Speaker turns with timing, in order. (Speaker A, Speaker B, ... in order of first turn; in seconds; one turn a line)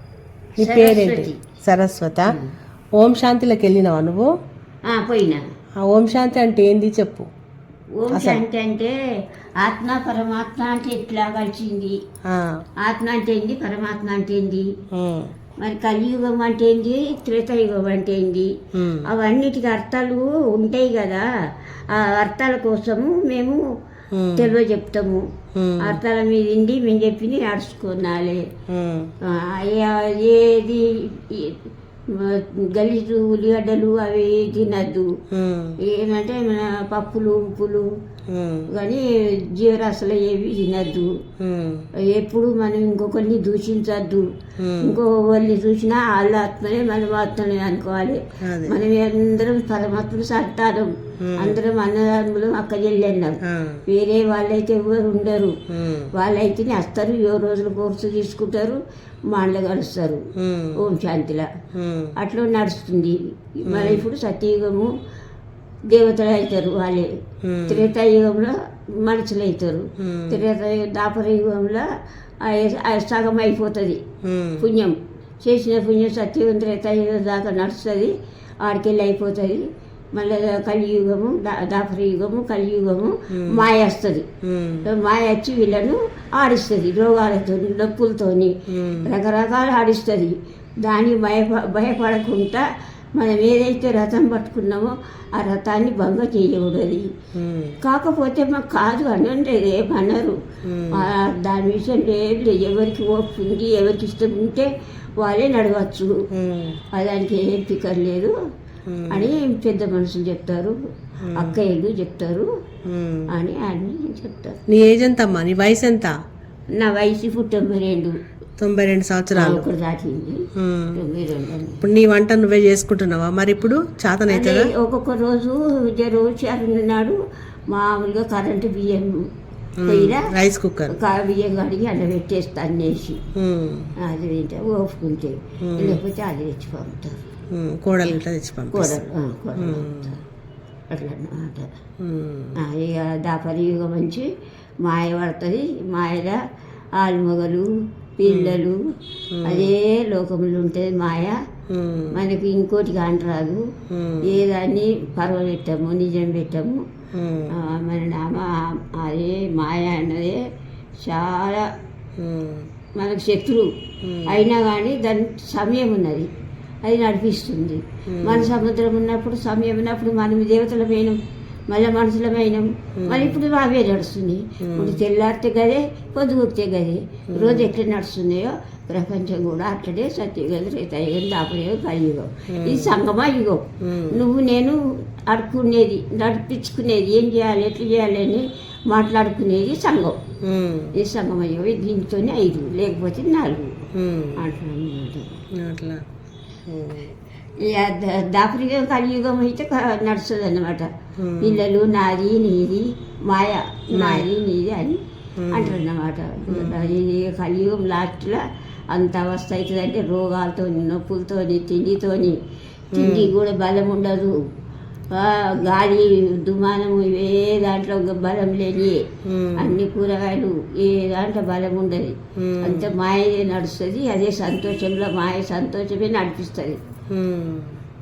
Speaker A: 0.6-1.4
Speaker B: 0.6-2.4
Speaker A: 2.2-2.5
Speaker B: 3.0-4.3
Speaker A: 4.9-5.4
Speaker B: 5.8-7.3
Speaker A: 8.0-8.9
Speaker B: 8.1-8.4
Speaker A: 9.6-11.9
Speaker B: 12.2-12.6
Speaker A: 12.8-14.7
Speaker B: 14.9-15.3
Speaker A: 15.6-18.5
Speaker B: 18.8-19.0
Speaker A: 19.0-21.2
Speaker A: 21.9-23.6
Speaker B: 24.1-24.5
Speaker A: 24.3-25.2
Speaker B: 25.5-26.0
Speaker A: 25.8-28.4
Speaker B: 28.7-29.1
Speaker A: 29.2-31.6
Speaker A: 32.1-35.1
Speaker B: 35.3-35.8
Speaker A: 35.9-37.9
Speaker B: 38.3-38.7
Speaker A: 38.7-41.1
Speaker B: 41.4-41.8
Speaker A: 42.0-44.3
Speaker B: 44.6-45.0
Speaker A: 44.8-55.6
Speaker B: 48.4-48.8
Speaker B: 51.2-51.6
Speaker B: 53.4-53.8
Speaker B: 55.7-56.1
Speaker A: 56.1-58.8
Speaker A: 59.3-61.5
Speaker B: 60.4-60.8
Speaker B: 61.7-62.1
Speaker A: 62.2-64.9
Speaker B: 63.6-64.1
Speaker A: 65.9-67.1
Speaker B: 67.4-67.9
Speaker A: 67.7-71.9
Speaker B: 70.0-70.4
Speaker A: 72.4-74.0
Speaker B: 74.2-74.6
Speaker A: 74.6-78.1
Speaker A: 78.6-84.3
Speaker B: 83.3-83.7
Speaker B: 84.4-84.8
Speaker A: 84.8-92.6
Speaker B: 88.7-89.1
Speaker A: 93.2-97.1
Speaker B: 97.3-97.8
Speaker A: 97.8-100.4
Speaker B: 100.6-101.1
Speaker A: 100.9-104.7
Speaker A: 105.2-106.2
Speaker B: 106.3-106.8
Speaker A: 106.9-108.3
Speaker B: 108.9-109.3
Speaker A: 109.1-110.7
Speaker B: 111.2-111.6
Speaker A: 111.3-112.5
Speaker B: 112.8-113.3
Speaker A: 113.3-114.6
Speaker B: 114.7-116.1
Speaker A: 116.8-118.2
Speaker B: 118.6-119.7
Speaker A: 119.3-121.8
Speaker B: 120.5-121.0
Speaker B: 121.8-124.7
Speaker A: 124.3-127.2
Speaker A: 127.7-129.2
Speaker B: 129.8-130.9
Speaker A: 129.8-130.3
Speaker A: 130.9-133.2
Speaker B: 133.3-133.9
Speaker A: 134.0-137.2
Speaker B: 135.6-136.0
Speaker B: 137.5-139.0
Speaker A: 138.7-140.2
Speaker B: 139.6-140.2
Speaker A: 140.9-141.7
Speaker B: 142.0-142.6
Speaker A: 142.6-144.3
Speaker A: 144.8-146.4
Speaker A: 147.0-148.8
Speaker B: 148.2-148.6
Speaker B: 149.3-149.7
Speaker A: 149.4-151.4
Speaker B: 151.7-152.2
Speaker A: 152.1-153.7
Speaker B: 153.9-154.4
Speaker A: 154.2-156.8
Speaker B: 157.1-157.5
Speaker A: 157.5-160.4
Speaker A: 161.0-161.7
Speaker B: 162.2-162.7
Speaker A: 163.0-163.7
Speaker B: 164.0-164.4
Speaker A: 164.3-166.3
Speaker A: 166.8-171.2
Speaker B: 168.1-168.5
Speaker A: 171.7-190.2
Speaker B: 173.0-173.4
Speaker B: 174.6-175.0
Speaker B: 177.3-177.7
Speaker B: 182.5-182.9
Speaker B: 183.8-184.2
Speaker B: 190.4-190.9
Speaker A: 190.9-193.8
Speaker B: 193.9-194.4
Speaker A: 194.4-195.4
Speaker B: 195.5-196.0
Speaker B: 196.7-197.1
Speaker A: 197.6-205.0
Speaker B: 201.2-201.6
Speaker B: 203.9-204.3
Speaker B: 205.4-205.8
Speaker A: 205.5-212.4
Speaker B: 206.5-206.9
Speaker A: 212.9-214.3
Speaker B: 212.9-213.3
Speaker A: 215.1-226.8
Speaker B: 219.2-219.8
Speaker B: 222.3-222.9
Speaker B: 227.1-227.8